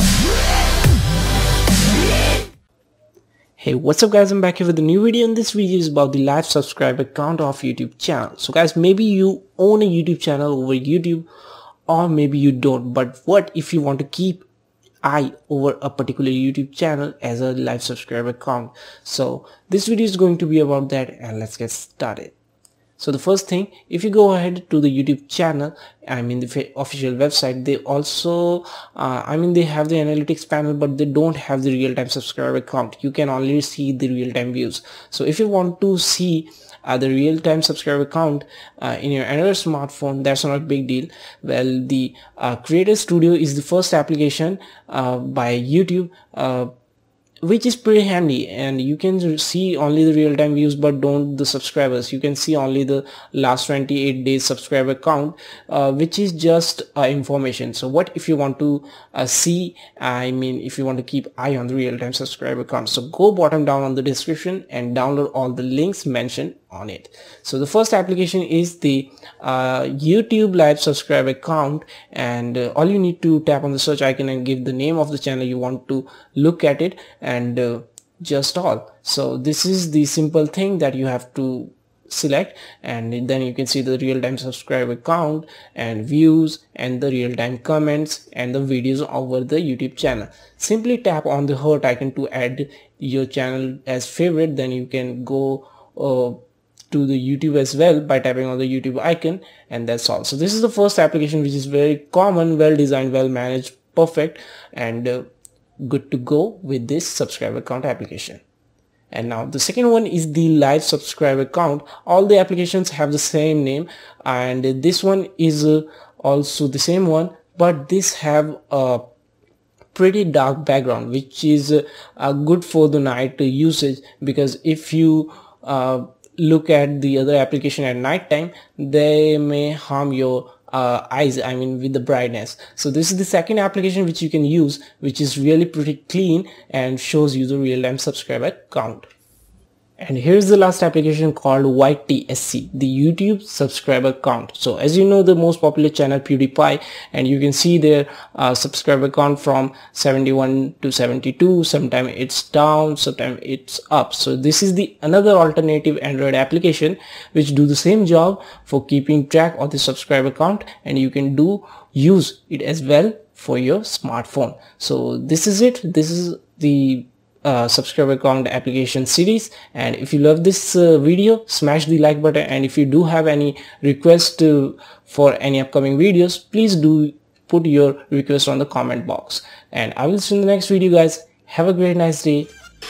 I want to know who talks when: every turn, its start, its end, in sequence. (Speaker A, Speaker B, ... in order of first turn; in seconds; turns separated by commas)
Speaker A: 3.6-11.3, Speaker A: 11.9-14.5, Speaker A: 15.0-22.3, Speaker A: 23.0-46.7, Speaker A: 47.4-96.4, Speaker A: 96.9-105.3, Speaker A: 105.8-108.4, Speaker A: 109.1-119.0, Speaker A: 119.9-139.1, Speaker A: 140.0-182.5